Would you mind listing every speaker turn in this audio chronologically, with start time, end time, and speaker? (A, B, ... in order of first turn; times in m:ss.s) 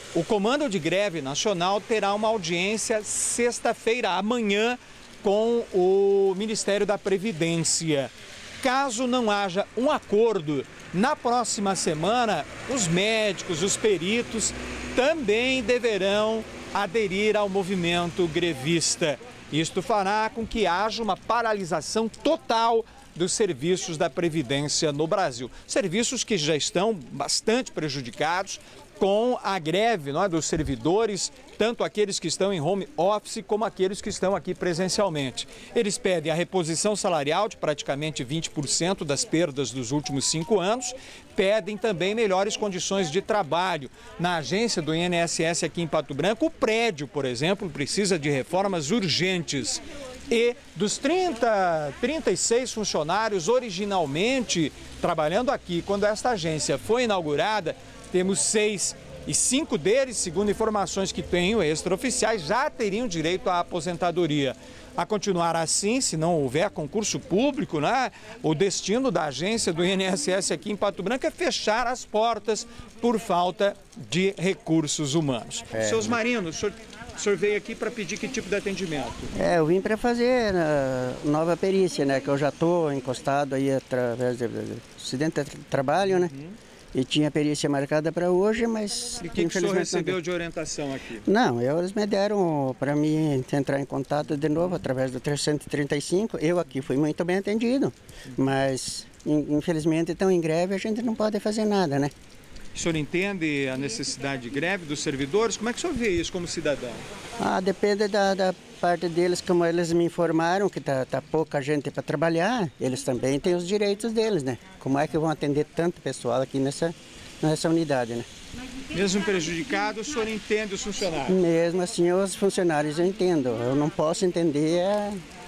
0:00.1-1:19.3 A
1:15.7-1:16.2 B
1:19.4-1:26.3 B
1:26.0-1:26.6 A
1:26.9-1:30.2 B
1:29.2-1:31.3 A
1:31.2-1:42.1 B
1:42.7-1:47.0 A
1:47.4-1:58.3 B
1:58.9-2:01.4 A
2:01.3-2:05.2 B